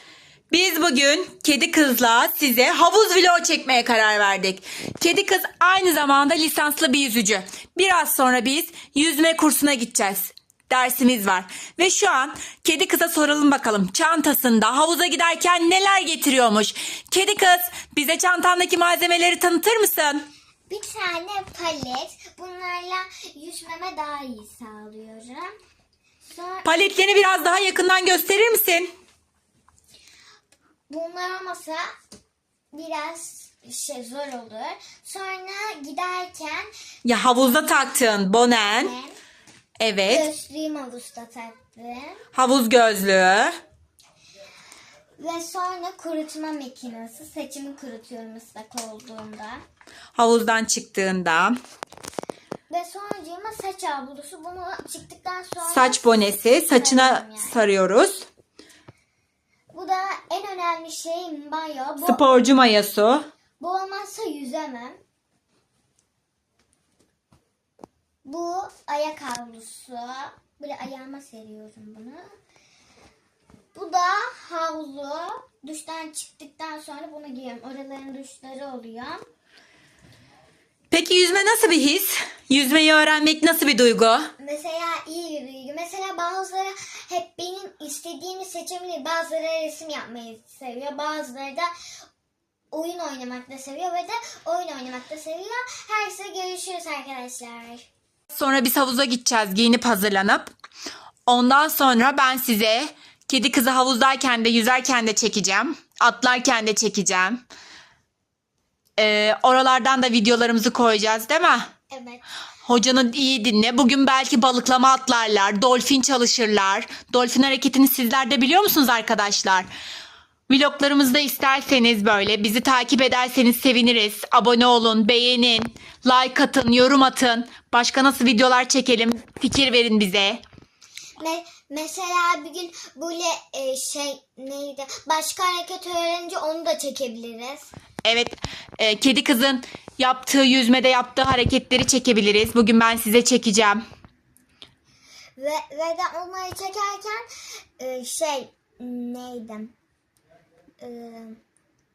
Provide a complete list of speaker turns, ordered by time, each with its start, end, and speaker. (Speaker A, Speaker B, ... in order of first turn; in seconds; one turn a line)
Speaker A: 0.5-20.2
Speaker B: 20.7-25.5
Speaker B: 26.3-26.8
Speaker A: 26.6-28.9
Speaker B: 30.9-31.8
Speaker B: 32.7-36.7
Speaker A: 37.0-38.9
Speaker B: 38.8-39.1
Speaker A: 39.8-40.3
Speaker B: 40.1-42.2
Speaker A: 42.3-43.5
Speaker B: 45.2-49.6
Speaker A: 50.1-51.6
Speaker B: 52.7-56.1
Speaker A: 55.7-58.2
Speaker B: 56.7-57.6
Speaker B: 59.7-62.2
Speaker A: 62.0-63.2
Speaker B: 63.6-65.0
Speaker B: 68.2-72.2
Speaker B: 73.7-79.2
Speaker A: 80.9-84.3
Speaker B: 84.4-91.7
Speaker B: 92.7-97.8
Speaker A: 98.3-100.5
Speaker A: 101.3-107.4
Speaker A: 109.0-111.7
Speaker B: 111.9-112.2
Speaker A: 112.6-119.7
Speaker A: 120.5-130.4
Speaker B: 131.2-137.7
Speaker A: 138.0-143.8
Speaker B: 145.4-147.2
Speaker B: 147.8-149.7
Speaker B: 150.8-151.4